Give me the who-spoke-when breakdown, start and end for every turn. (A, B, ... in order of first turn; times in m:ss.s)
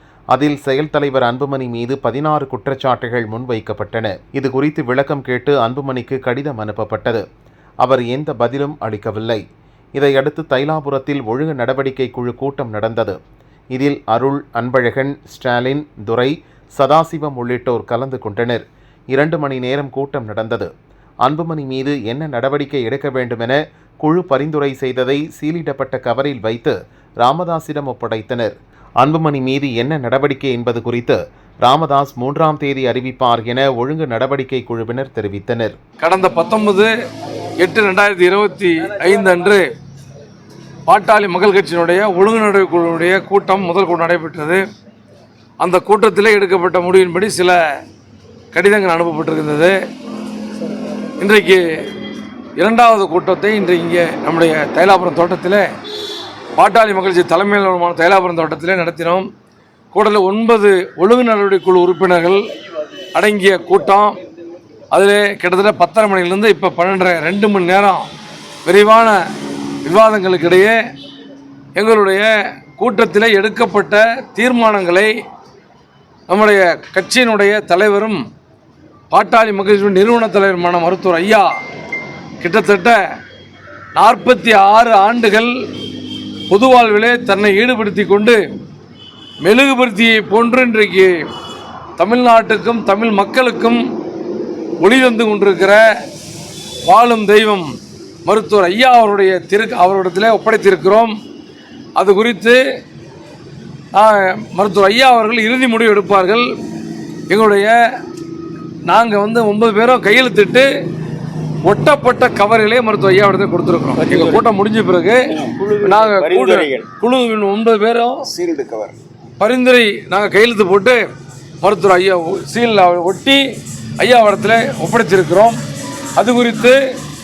0:00.3-0:07.2 A
0:07.8-0:09.4 A
0:10.0-0:13.2 A
0:13.7-0:20.7 A
0:21.2-0:35.8 A
0:36.0-0:36.9 B
0:37.6-0:39.7 B
0:40.9-0:44.6 B
0:45.6-0:47.6 B
0:48.5-0:49.8 B
0:51.2-0:51.6 B
0:52.6-0:55.7 B
0:56.6-0:59.3 B
0:59.9-1:02.4 B
1:03.1-1:04.2 B
1:04.9-1:08.1 B
1:08.6-1:09.2 B
1:09.8-1:10.8 B
1:11.8-1:15.1 B
1:16.3-1:18.2 B
1:19.1-1:21.5 B
1:22.4-1:23.0 B
1:23.9-1:25.5 B
1:26.5-1:28.4 B
1:29.4-1:31.1 B
1:32.0-1:33.8 B
1:34.8-1:35.8 B
1:36.8-1:37.7 B
1:38.2-1:41.2 B
1:42.0-1:42.6 B
1:43.9-1:46.5 B
1:47.3-1:47.7 B
1:48.9-1:50.7 B
1:51.6-1:55.2 B
1:54.0-1:54.4 C
1:55.3-1:56.9 C
1:55.8-1:58.2 B
1:58.2-1:59.0 C
1:59.4-2:01.0 B
2:01.6-2:03.4 B
2:04.0-2:05.6 B
2:06.2-2:06.8 B